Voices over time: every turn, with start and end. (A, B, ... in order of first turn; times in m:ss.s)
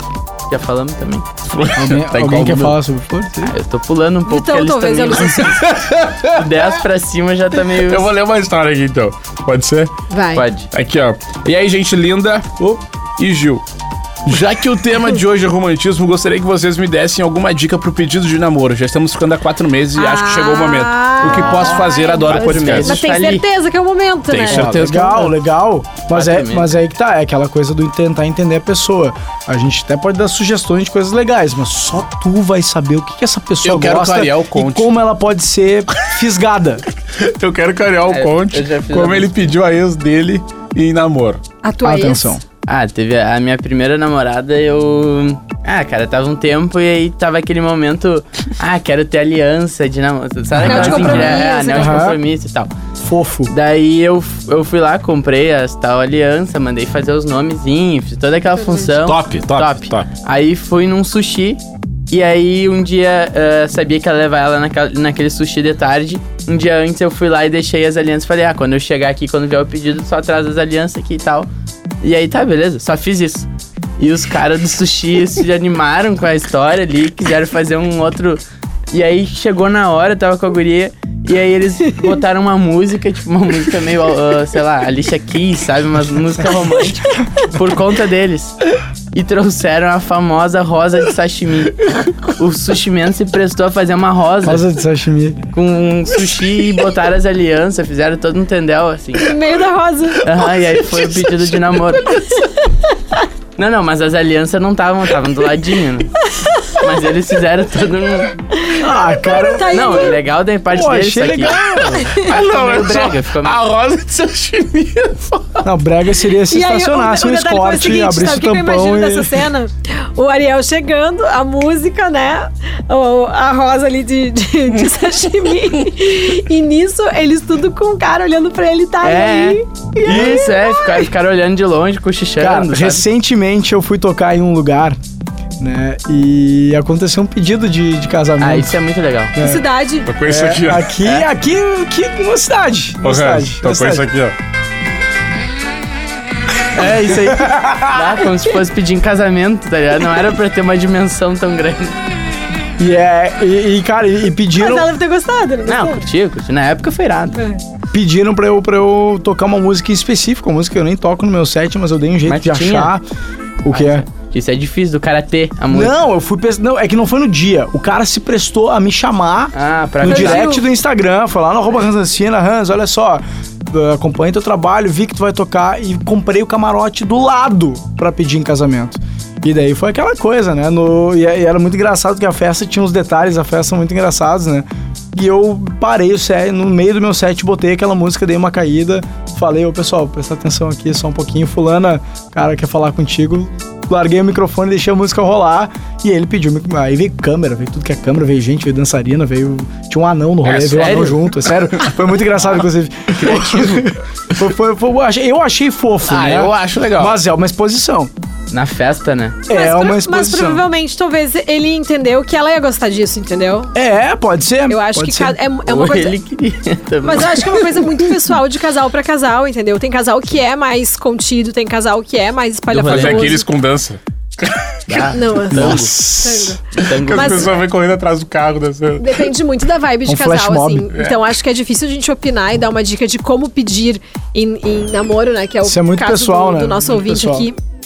0:00.5-0:01.2 A
0:01.4-0:02.8 B
0:01.7-0:03.5 C
0:03.4-0:05.6 A
0:04.2-0:05.7 D
0:05.4-0:06.7 B
0:06.2-0:08.1 A
0:07.7-0:09.9 B
0:10.1-0:10.4 D
0:10.3-0:10.7 A
0:10.7-0:13.6 B
0:14.2-0:23.0 B
0:20.0-0:24.8 D
0:22.2-0:23.4 A
0:24.3-0:25.4 B
0:24.5-0:36.8 C
0:26.1-0:26.7 A
0:33.6-0:34.9 B
0:37.1-0:41.4 B
0:38.1-0:39.3 A
0:41.6-0:42.4 D
0:41.8-0:42.4 C
0:42.7-0:52.7 A
0:50.5-0:51.4 B
0:50.6-0:52.0 D
0:51.0-0:52.2 C
0:53.0-0:53.5 C
0:53.5-1:01.6 A
0:58.6-0:58.9 D
0:59.0-1:00.1 B
1:02.1-1:11.5 A
1:12.0-1:13.5 A
1:14.0-1:18.4 A
1:18.9-1:28.6 A
1:29.1-1:34.6 A
1:34.4-1:35.4 C
1:35.5-1:39.3 A
1:39.2-1:40.3 D
1:40.2-1:42.4 A
1:40.9-1:41.4 B
1:43.6-1:46.1 A
1:46.7-1:48.4 A
1:48.6-1:50.2 D
1:48.8-1:50.0 C
1:49.7-1:53.6 A
1:50.7-1:52.1 C
1:52.0-1:52.3 D
1:52.2-1:55.6 B
1:55.6-1:59.5 C
1:56.5-2:11.0 D
2:09.0-2:13.0 A
2:12.4-2:15.0 C
2:15.6-2:18.8 C
2:18.4-2:19.3 A
2:19.3-2:19.6 C
2:19.4-2:20.1 D
2:20.0-2:20.9 B
2:20.2-2:24.0 C
2:21.0-2:21.3 A
2:23.0-2:24.3 B
2:26.7-2:32.0 A
2:26.9-2:28.3 C
2:32.8-2:34.9 C
2:34.6-2:36.1 D
2:35.6-2:37.4 A
2:37.3-2:37.6 D
2:37.9-2:43.0 C
2:42.2-2:42.9 A
2:43.6-2:44.0 C
2:43.7-2:46.0 A
2:45.7-3:28.1 C
2:49.5-2:50.6 A
2:50.1-2:50.6 D
3:20.4-3:21.2 B
3:20.7-3:21.2 A
3:23.2-3:23.9 A
3:26.1-3:27.2 B
3:28.5-3:29.4 A
3:29.5-3:30.6 C
3:29.5-3:33.7 D
3:33.7-3:35.4 C
3:34.7-3:36.1 D
3:35.6-3:38.0 A
3:37.0-3:43.4 D
3:42.7-3:43.4 A
3:42.8-3:45.1 B
3:44.9-3:45.9 A
3:45.1-3:46.6 D
3:45.5-3:46.6 C
3:46.7-3:47.5 A
3:46.8-3:49.3 B
3:47.1-3:47.5 D
3:49.0-3:57.6 D
3:50.0-3:50.9 C
3:50.9-3:51.2 B
3:55.6-3:57.5 C